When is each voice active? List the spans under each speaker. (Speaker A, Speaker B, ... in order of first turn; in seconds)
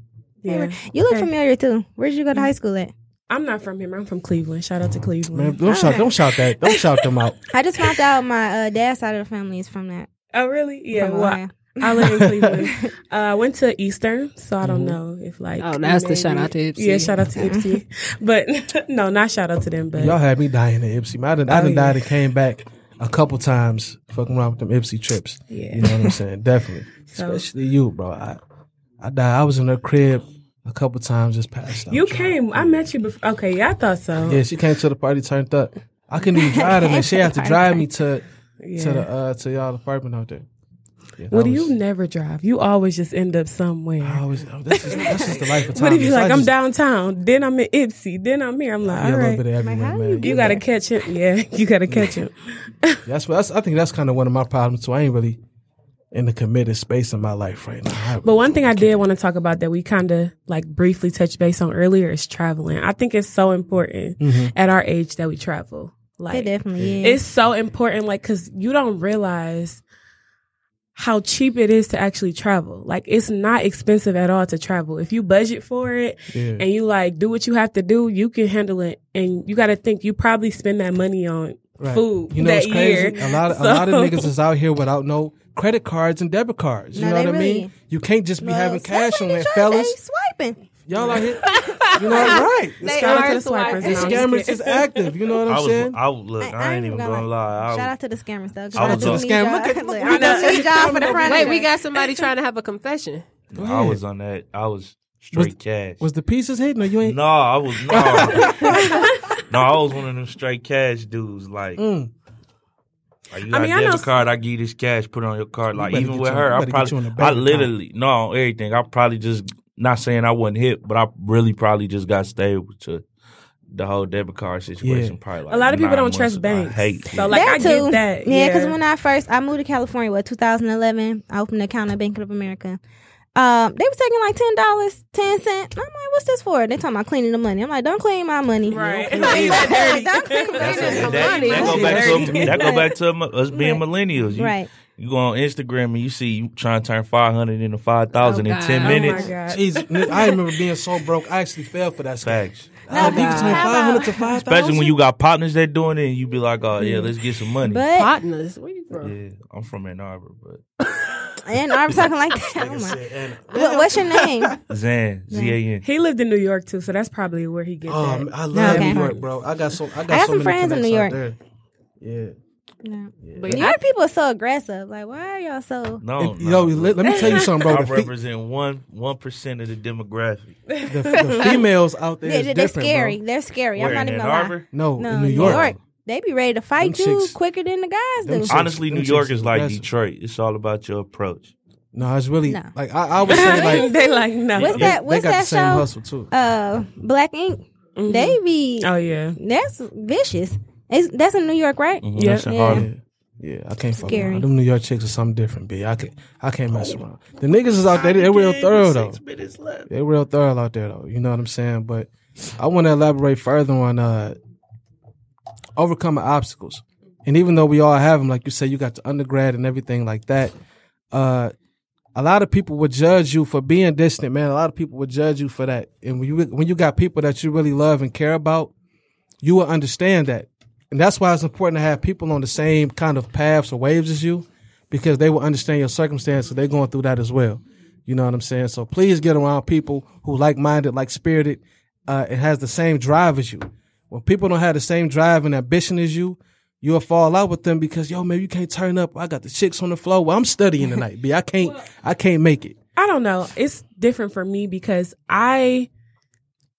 Speaker A: 0.4-1.3, 3.3-6.0, 10.3-20.2, 21.5-22.0, 25.5-25.9, 27.1-27.4, 31.9-34.4, 38.6-39.1, 41.3-44.2, 45.0-49.4, 50.2-53.0, 58.2-66.5, 67.0-69.8, 71.0-84.3, 92.8-94.8, 100.0-101.4, 108.7-109.1, 113.5-114.2, 125.5-128.7, 138.7-140.6, 148.8-150.4, 165.8-169.3, 193.3-194.7, 198.0-199.4, 202.2-202.5, 252.9-255.9
Speaker B: 0.5-2.9, 5.7-6.1, 7.5-10.1, 10.9-12.1, 17.4-17.8, 36.5-37.8, 49.6-50.6, 66.3-67.2, 86.9-87.7, 88.4-90.6, 96.4-101.7, 127.3-132.8, 133.3-142.9, 143.5-144.7, 152.9-154.4, 157.6-158.1, 161.5-164.6, 165.3-165.6, 168.5-169.1, 170.1-171.2, 172.8-176.0, 182.2-188.5, 193.3-202.9, 204.1-204.4
Speaker C: 5.3-7.4, 12.2-12.5, 14.6-15.0, 19.9-28.4, 29.0-32.9, 34.2-38.2, 38.8-40.5, 41.2-41.7, 44.0-46.5, 48.8-50.6, 51.9-52.2, 53.0-55.4, 56.1-59.1, 64.2-64.5, 66.8-67.0, 76.3-76.6, 81.8-90.0, 90.8-96.0, 98.7-101.5, 103.5-104.0, 105.3-107.2, 107.9-108.9, 111.8-112.1, 115.7-117.7, 124.8-125.2, 138.7-139.8, 141.5-142.7, 149.4-154.9, 161.9-164.6, 167.8-171.4, 172.0-172.3, 173.2-173.7, 176.2-178.1, 180.9-183.2, 184.7-185.7, 186.8-187.3, 188.2-189.8, 191.9-193.9, 194.6-196.3, 202.7-209.2, 209.9-214.4, 215.8-220.5, 221.1-221.5, 222.1-228.7, 229.4-252.8
Speaker D: 15.6-17.3, 91.1-94.4, 101.0-103.2, 139.0-140.0, 140.6-142.4, 148.2-149.3, 153.0-153.8, 157.9-159.1, 173.4-173.8
Speaker E: 95.5-97.9, 98.7-99.4, 103.5-106.0, 107.0-111.8, 113.3-123.0, 123.7-127.3, 140.6-149.3, 152.2-153.1, 154.4-157.8, 159.0-160.6, 164.7-165.8, 176.0-180.6, 183.7-184.8, 185.3-185.8, 188.5-191.5, 194.6-195.0, 202.0-202.9, 207.9-209.9